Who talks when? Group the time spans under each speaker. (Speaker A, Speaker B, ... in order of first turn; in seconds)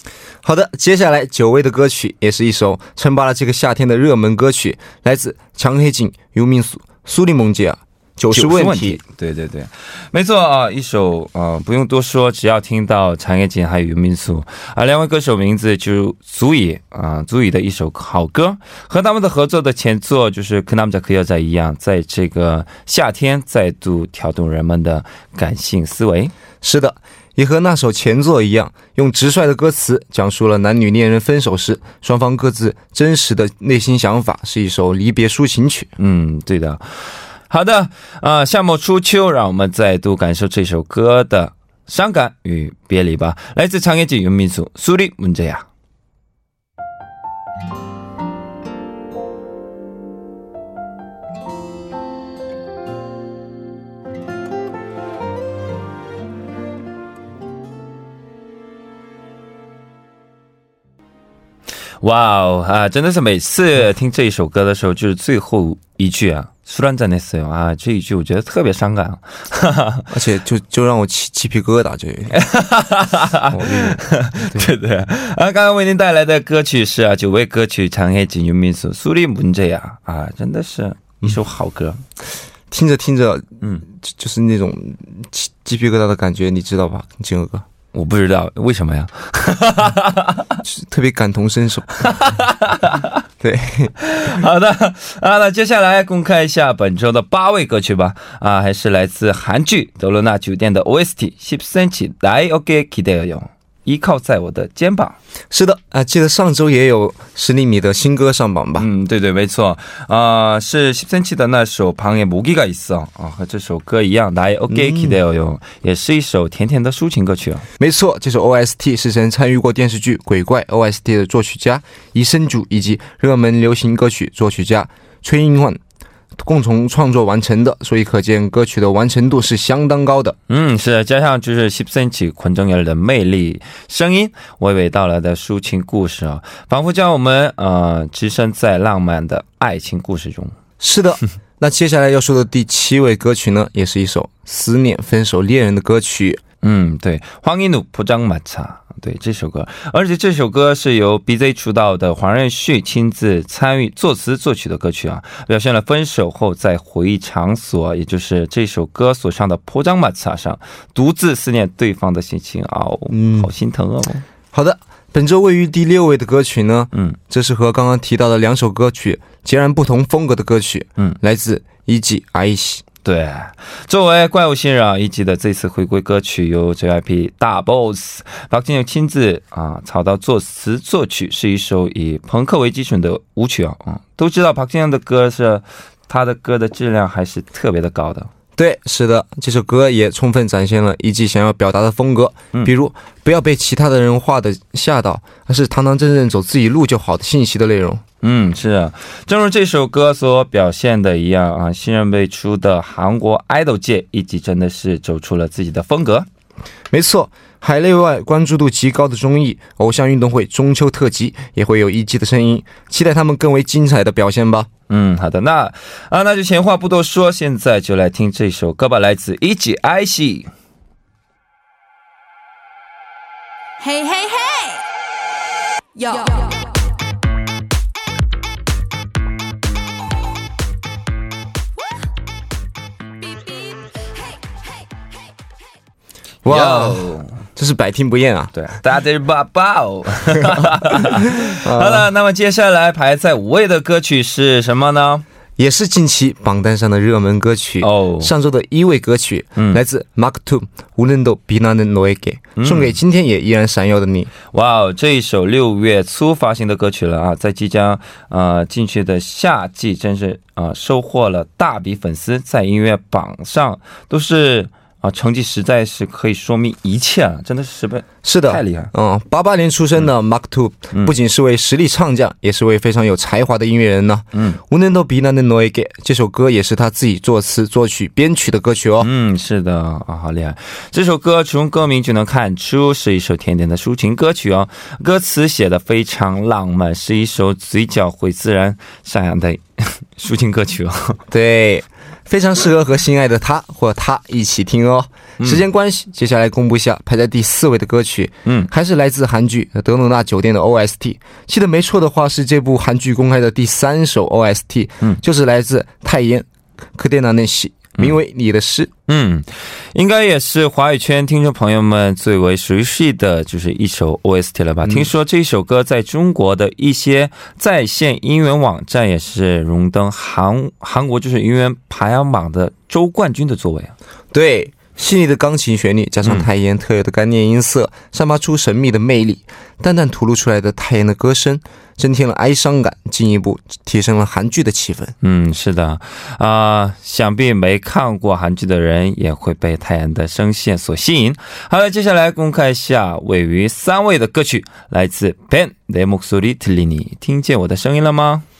Speaker A: 0.4-9.0, 26.6-35.9, 70.1-72.4, 73.5-74.7, 82.7-87.6, 90.6-92.1, 93.4-93.9, 105.5-108.9, 114.7-115.1, 117.8-125.8, 126.4-130.4, 140.8-146.4, 163.1-163.5, 164.5-172.8, 188.6-198.0, 206.9-214.7, 236.4-238.5, 240.8-242.1, 245.6-254.3, 268.2-279.1, 291.3-308.9, 314.8-315.1, 324.3-335.1
Speaker B: 8.3-26.3, 36.0-45.6, 62.0-70.1, 72.3-82.0, 87.9-90.6, 92.0-93.2, 94.0-105.2, 108.8-117.7, 130.5-140.5, 146.6-164.2, 173.0-188.3, 198.2-206.3, 214.9-220.5, 236.4-237.4, 238.5-245.2, 247.8-248.3, 252.6-253.0, 254.5-268.9, 274.3-274.6, 279.0-291.2, 309.1-323.9, 335.2-348.4
Speaker C: 223.8-224.8, 225.9-226.8, 233.2-234.6